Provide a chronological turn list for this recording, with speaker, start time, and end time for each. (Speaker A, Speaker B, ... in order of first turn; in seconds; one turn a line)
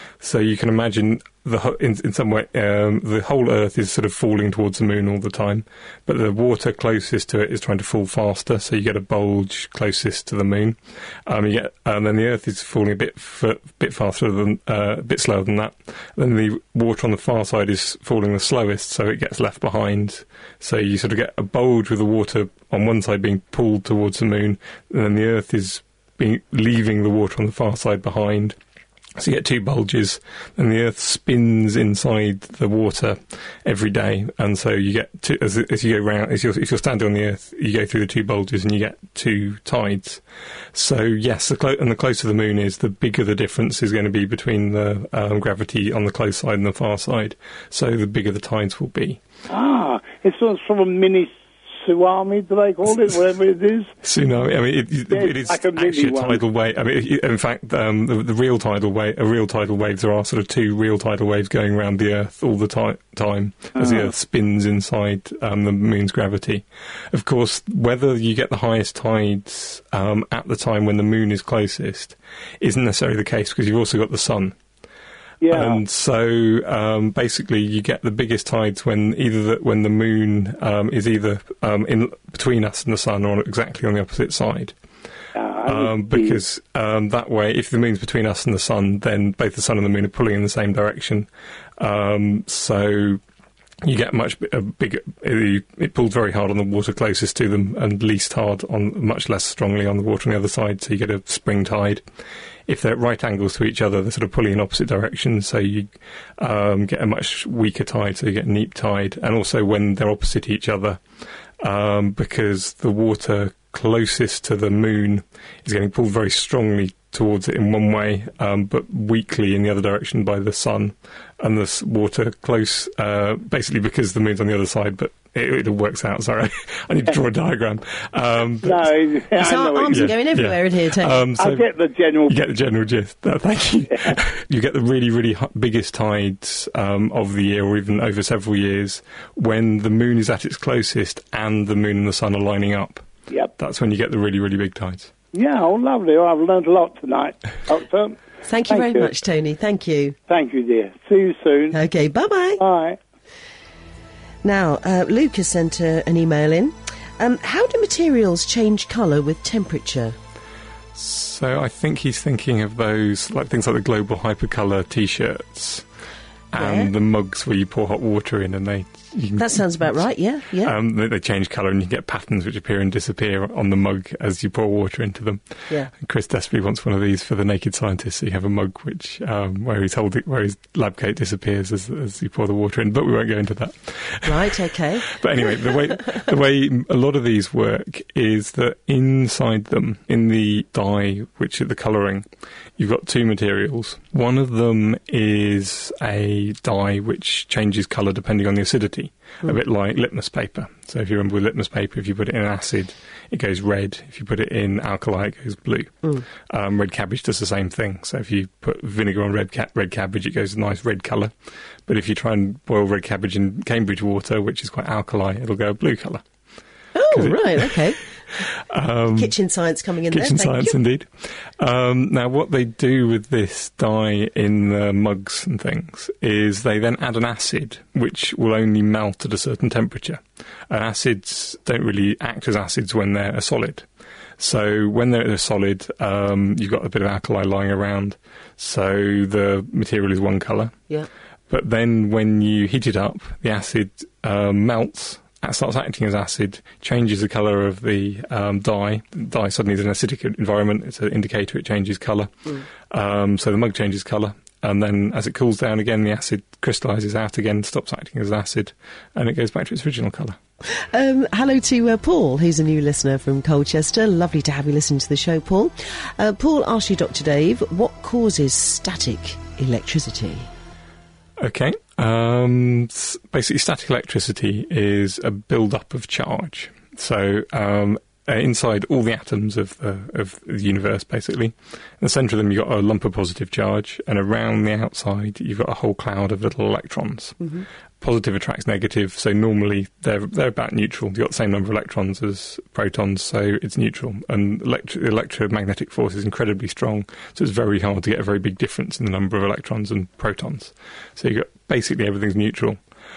Speaker A: 0.2-28.6
Speaker A: 29.2-40.2
Speaker A: 40.7-49.2
Speaker B: 49.5-53.9
Speaker A: 54.0-74.6
Speaker B: 55.1-56.4
Speaker B: 75.4-75.8
Speaker A: 75.5-84.8
Speaker B: 85.4-86.4
Speaker A: 85.7-93.2
Speaker A: 93.8-102.0
Speaker A: 102.7-111.0
Speaker A: 111.6-128.9
Speaker B: 128.6-130.1
Speaker C: 129.4-131.3
Speaker A: 129.9-131.7
Speaker B: 131.4-132.4
Speaker A: 132.3-143.1
Speaker A: 143.6-145.1
Speaker B: 145.3-149.1
Speaker C: 148.4-150.2
Speaker B: 150.3-151.8
Speaker C: 151.7-152.6
Speaker B: 152.6-153.0
Speaker C: 154.4-160.2
Speaker A: 160.9-165.8
Speaker A: 166.5-170.1
Speaker C: 166.5-166.9
Speaker C: 169.4-170.8
Speaker A: 170.6-175.4
Speaker A: 175.9-184.6
Speaker C: 184.2-185.7
Speaker A: 185.1-192.3
Speaker A: 192.8-211.3
Speaker A: 211.9-216.2
Speaker C: 216.9-218.0
Speaker A: 217.1-219.3
Speaker C: 219.1-220.8
Speaker A: 220.1-233.9
Speaker A: 234.4-240.7
Speaker A: 241.5-260.4
Speaker C: 260.7-270.5
Speaker A: 271.4-287.4
Speaker A: 288.0-302.8